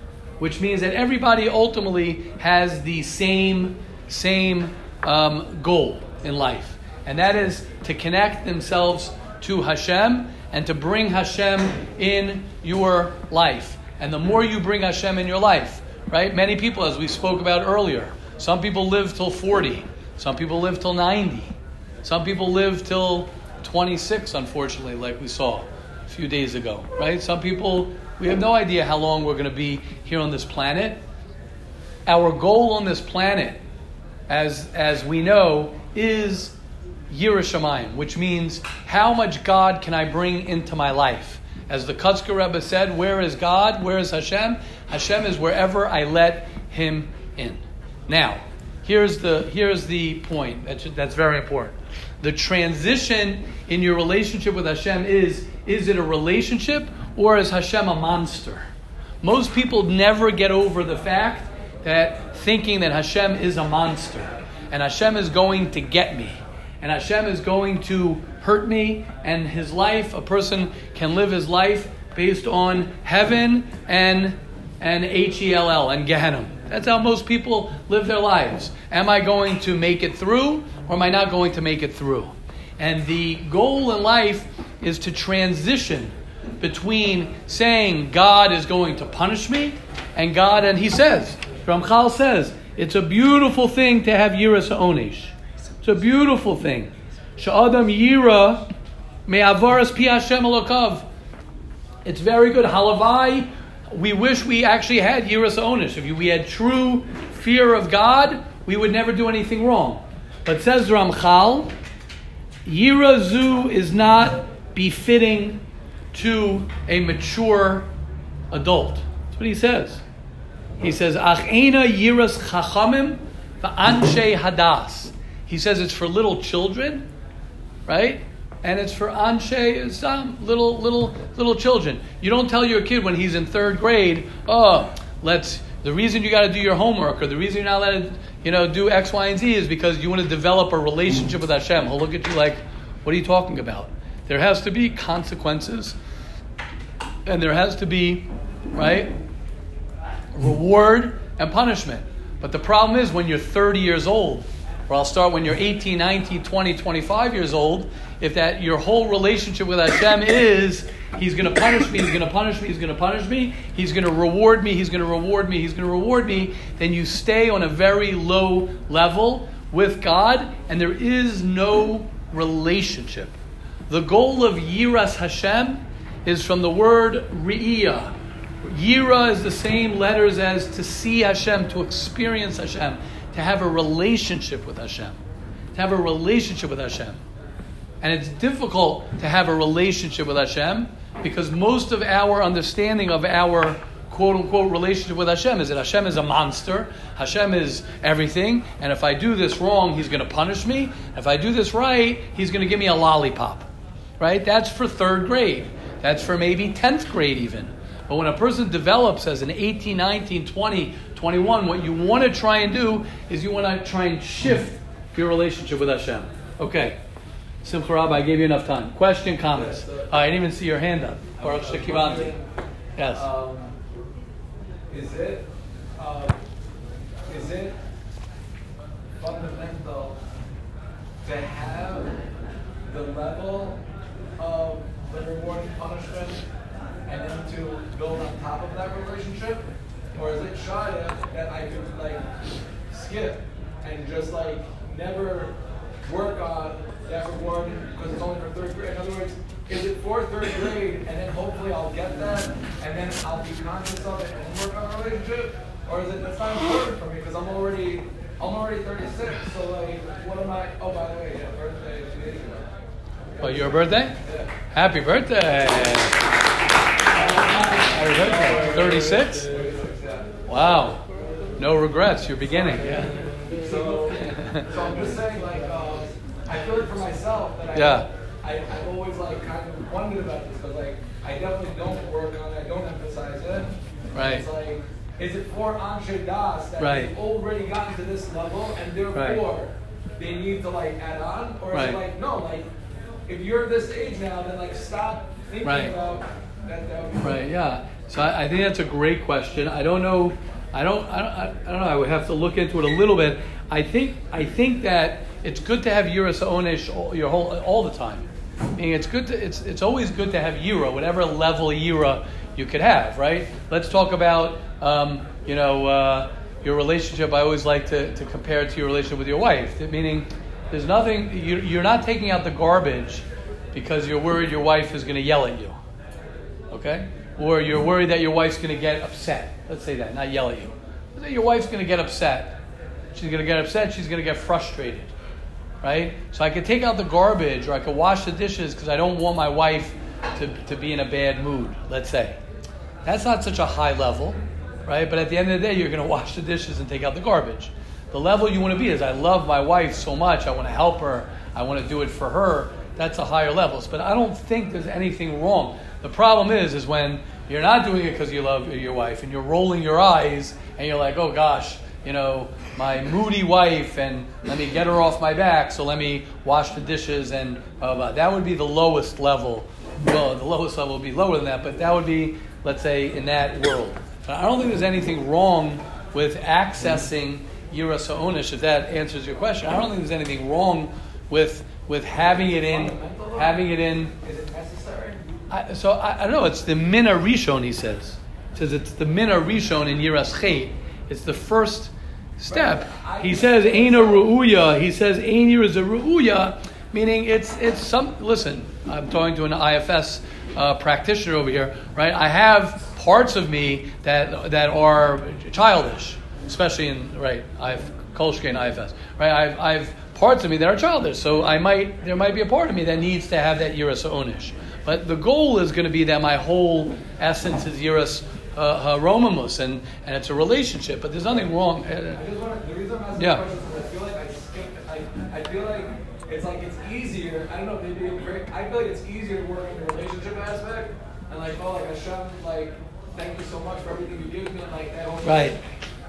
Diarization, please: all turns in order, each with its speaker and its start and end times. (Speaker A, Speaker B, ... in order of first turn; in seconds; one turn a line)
Speaker A: 0.4-31.0
Speaker A: 32.0-33.6
Speaker A: 34.3-36.5
Speaker A: 37.1-58.6
Speaker A: 59.2-98.7
Speaker A: 99.3-101.1
Speaker A: 102.0-111.7
Speaker A: 112.6-115.6
Speaker A: 116.1-117.9
Speaker A: 118.5-120.0
Speaker A: 120.8-127.1
Speaker A: 127.9-145.9
Speaker A: 147.2-149.1
Speaker A: 150.3-173.3
Speaker A: 173.9-185.2
Speaker A: 185.7-187.2
Speaker A: 188.0-203.7
Speaker A: 204.2-217.0
Speaker A: 217.6-222.3
Speaker B: 219.5-220.3
Speaker B: 221.4-222.5
Speaker A: 223.0-223.2
Speaker B: 223.1-223.8
Speaker B: 224.9-226.4
Speaker B: 227.3-227.8
Speaker B: 229.2-230.2
Speaker B: 231.2-232.1
Speaker B: 232.8-233.8
Speaker B: 234.4-236.4
Speaker B: 237.1-242.3
Speaker B: 242.9-262.7
Speaker A: 263.4-264.2
Speaker B: 263.4-263.7
Speaker B: 264.2-264.5
Speaker A: 264.7-266.2
Speaker B: 267.1-270.3
Speaker A: 267.2-269.5
Speaker A: 270.5-271.0
Speaker A: 271.6-273.1
Speaker B: 272.5-292.7
Speaker A: 274.1-274.7
Speaker A: 277.7-278.1
Speaker A: 284.1-284.5
Speaker A: 286.8-287.1
Speaker A: 289.1-289.4
Speaker A: 291.7-292.0
Speaker B: 293.3-297.5
Speaker A: 295.6-295.9
Speaker A: 297.2-325.8
Speaker A: 326.7-332.6
Speaker A: 333.1-335.1
Speaker A: 335.8-342.4
Speaker A: 343.0-384.1
Speaker B: 382.1-385.3
Speaker A: 385.5-422.2
Speaker B: 392.5-394.4
Speaker B: 422.1-435.6
Speaker A: 423.2-423.4
Speaker A: 435.2-435.6